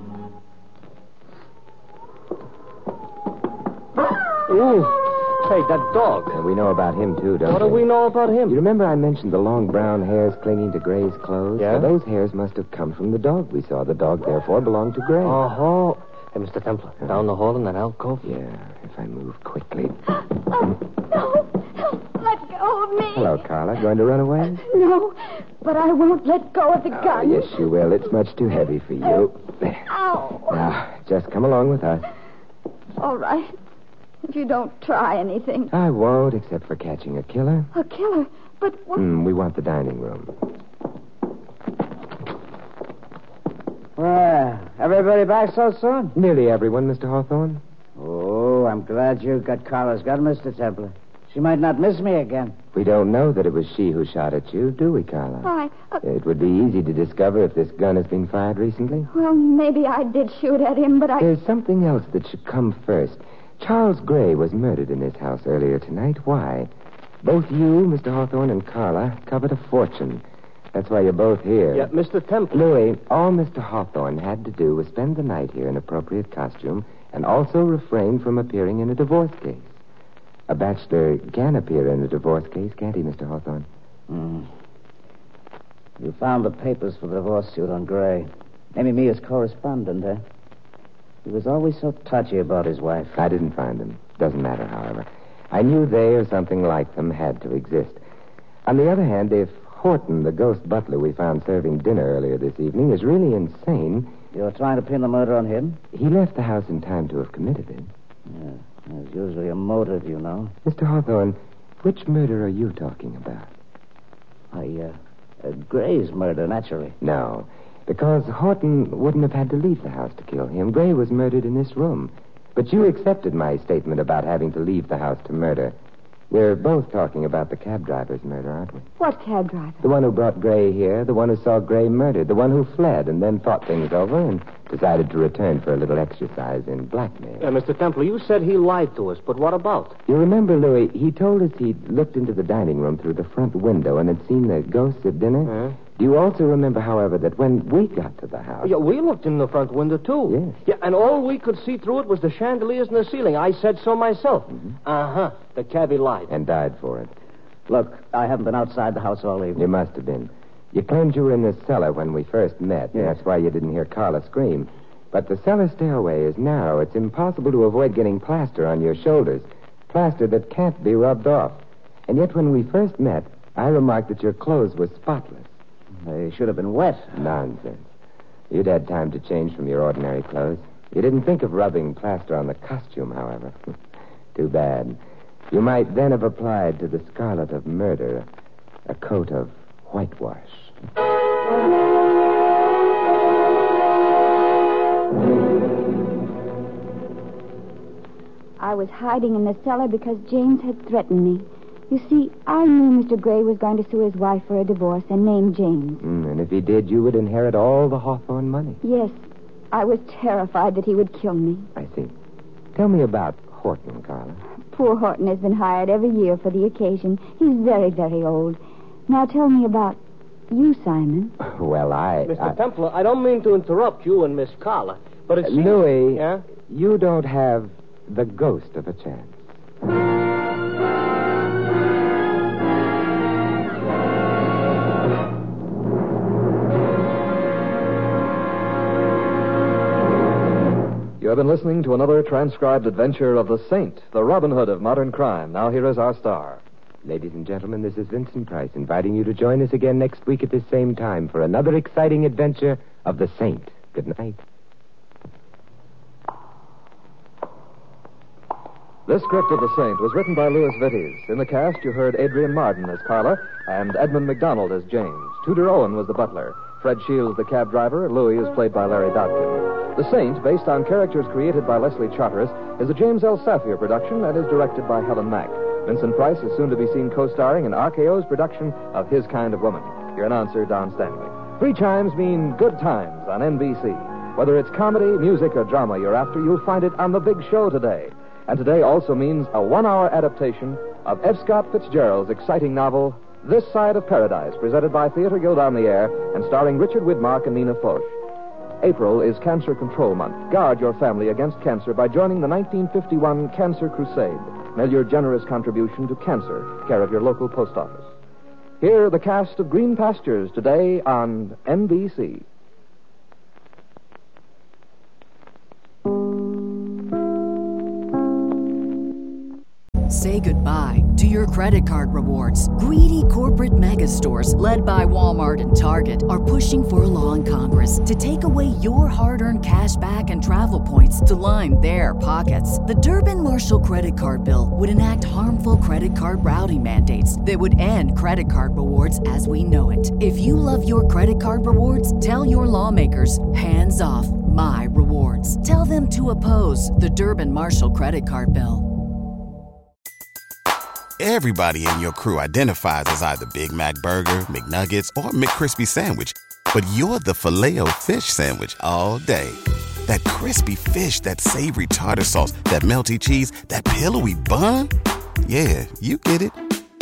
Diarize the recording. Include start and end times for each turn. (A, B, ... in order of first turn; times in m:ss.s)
0:04.3-0:06.4 A
0:06.3-0:07.8 B
0:07.5-0:08.6 A
0:08.5-0:15.4 B
0:11.6-0:11.9 A
0:15.2-0:18.3 A
0:18.2-0:20.0 B
0:20.4-0:23.4 C
0:23.1-0:24.6 B
0:24.6-0:27.7 C
0:26.9-0:29.9 B
0:29.9-0:30.7 C
0:30.5-0:32.1 B
0:33.0-0:33.5 C
0:34.2-0:35.7 C
0:35.7-0:37.7 B
0:37.7-0:39.1 C
0:39.0-0:40.3 B
0:44.0-0:46.1 D
0:46.1-0:47.6 B
0:48.0-0:52.6 D
0:52.7-0:55.5 B
0:55.4-0:56.0 C
0:56.0-0:59.1 B
0:59.1-1:01.3 C
1:01.2-1:06.7 B
1:07.2-1:11.9 B
1:11.7-1:12.6 A
1:12.5-1:19.7 B
1:20.5-1:23.7 B
1:24.1-1:24.5 D
1:26.0-1:30.2 D
1:31.2-1:33.2 D
1:33.2-1:38.0 B
1:38.6-1:44.1 B
1:44.3-1:45.8 D
1:45.9-1:47.9 B
1:48.3-1:50.5 D
1:50.6-1:53.5 B
1:54.5-1:57.0 D
1:57.0-2:05.8 B
2:06.3-2:08.9 B
2:09.0-2:09.8 C
2:09.8-2:17.5 B
2:17.4-2:20.0 A
2:20.1-2:28.7 B
2:25.5-2:25.8 A
2:28.6-2:36.3 A
2:30.3-2:30.6 B
2:36.3-2:37.1 B
2:37.7-2:39.6 D
2:39.6-2:55.5 B
2:56.0-2:57.2 D
2:57.2-2:57.9 B
2:58.5-3:03.7 B
3:04.4-3:05.0 B
3:05.5-3:08.3 B
3:08.9-3:10.7 B
3:18.6-3:26.0 C
3:26.0-3:28.8 B
3:28.8-3:29.2 C
3:29.7-3:31.7 C
3:31.8-3:32.1 B
3:32.8-3:34.4 B
3:34.7-3:40.0 C
3:40.5-3:41.3 C
3:41.4-3:42.6 B
3:42.3-3:46.4 A
3:45.4-3:49.4 B
4:01.2-4:06.6 E
4:07.0-4:14.4 B
4:19.1-4:58.1 E
4:58.8-5:08.1 E
5:08.8-5:12.5 E
5:20.1-5:48.9 F
5:51.2-6:04.9 G
6:05.4-6:06.6 G